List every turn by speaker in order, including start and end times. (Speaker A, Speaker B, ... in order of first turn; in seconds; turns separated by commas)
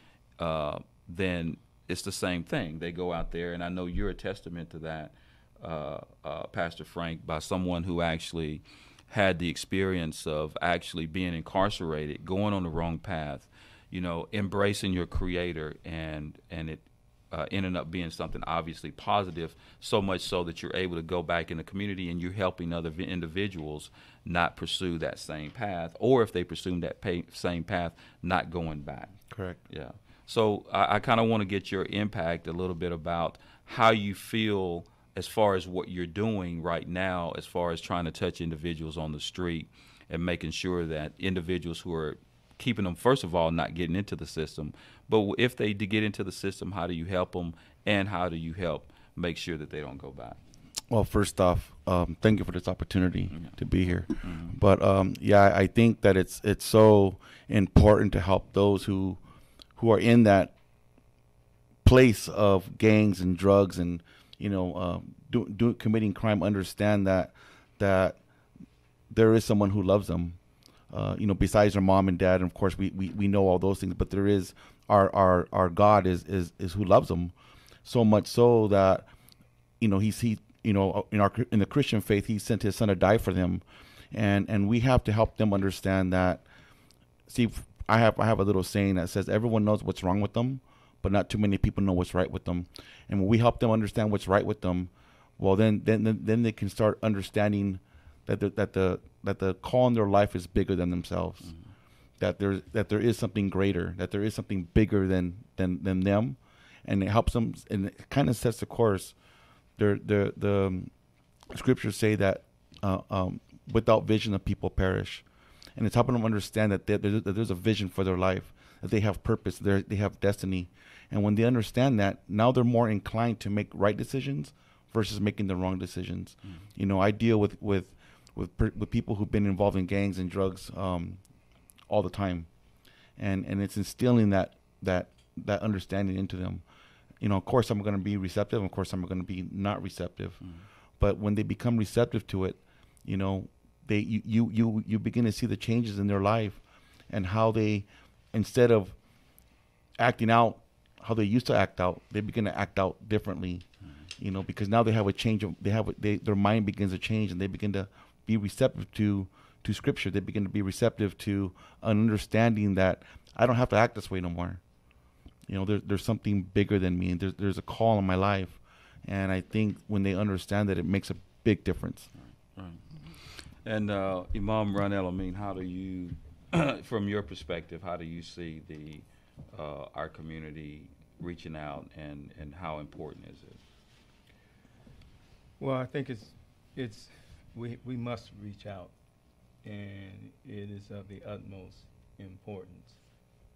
Speaker A: 0.4-29.1, Speaker B: 29.3-29.6, Speaker A: 29.7-50.4, Speaker B: 50.9-59.2, Speaker A: 54.2-54.5, Speaker B: 59.8-60.5, Speaker B: 61.8-68.2, Speaker B: 69.1-70.4, Speaker B: 70.9-77.3, Speaker B: 77.8-79.1, Speaker B: 79.8-86.4, Speaker B: 87.3-101.5, Speaker B: 102.2-109.2, Speaker B: 109.8-110.9, Speaker B: 111.5-115.2, Speaker B: 115.8-131.2, Speaker B: 131.9-132.5, Speaker B: 133.2-136.6, Speaker B: 137.2-140.4, Speaker B: 141.0-149.0, Speaker B: 150.0-153.7, Speaker B: 154.2-164.6, Speaker B: 165.5-172.1, Speaker A: 172.5-183.6, Speaker C: 185.6-188.9, Speaker C: 189.6-193.0